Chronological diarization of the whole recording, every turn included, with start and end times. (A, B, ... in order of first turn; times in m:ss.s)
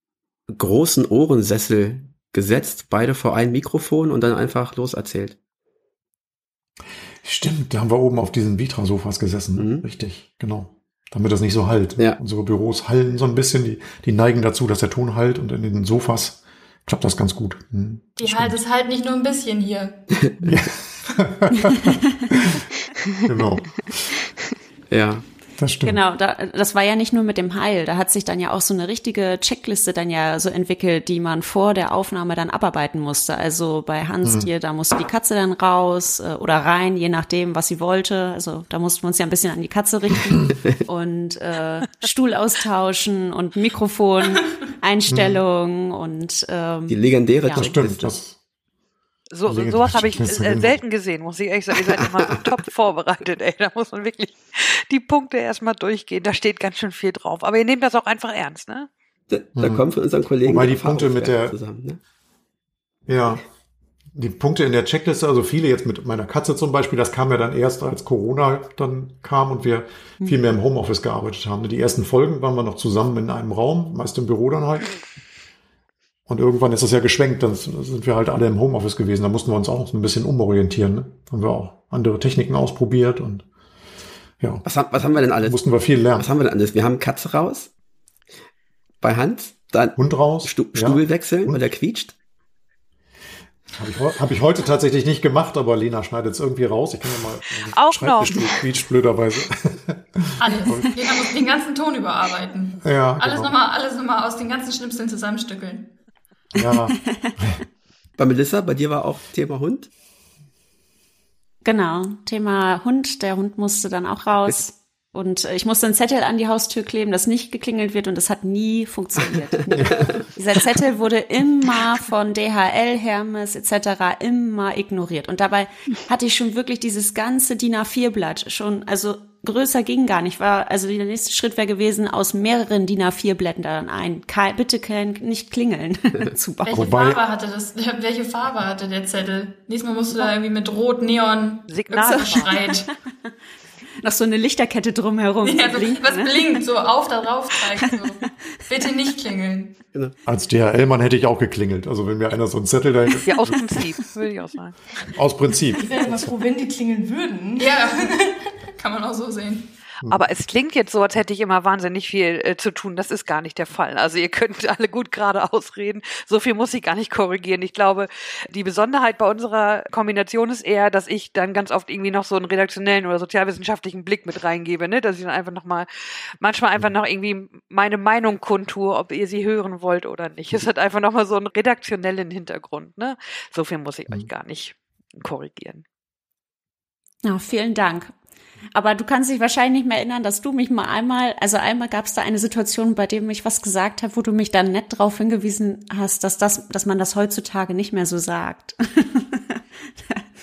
0:00.5-0:05.4 A
0:07.2-0:18.6 B
0:09.6-0:09.8 A
0:18.2-0:20.1 C
0:20.4-0:22.7 B
0:23.2-0:24.1 B
0:24.9-0:25.2 A
0:25.6-0:26.0 B
0:25.8-0:47.7 D
0:45.1-0:45.4 B
0:46.9-0:48.2 A
0:47.5-0:48.4 B
0:49.3-0:58.9 E
0:49.5-0:50.8 B
0:59.3-1:02.0 A
0:59.6-0:59.9 B
1:00.4-1:01.6 B
1:03.1-1:03.4 B
1:04.1-1:15.0 B
1:16.3-1:23.4 B
1:24.4-1:24.7 B
1:24.6-1:25.6 A
1:25.4-1:26.3 B
1:26.2-1:27.7 A
1:29.0-1:32.2 A
1:30.0-1:31.6 B
1:33.7-1:41.1 B
1:37.8-1:38.6 E
1:40.4-1:45.9 C
1:42.8-1:43.5 B
1:46.6-1:47.5 B
1:48.2-1:49.9 A
1:51.6-2:16.9 D
1:59.7-2:00.2 A
1:59.8-2:00.1 B
2:16.7-2:22.9 C
2:16.7-2:17.2 B
2:21.7-2:22.8 E
2:22.0-2:22.8 D
2:24.0-2:26.6 D
2:25.4-2:29.8 C
2:30.2-2:33.8 B
2:33.3-2:34.8 E
2:35.1-2:36.3 B
2:35.8-2:38.3 F
2:37.6-2:39.7 C
2:40.1-2:55.9 E
2:56.4-3:05.8 E
3:07.2-3:08.1 D
3:08.8-3:19.6 D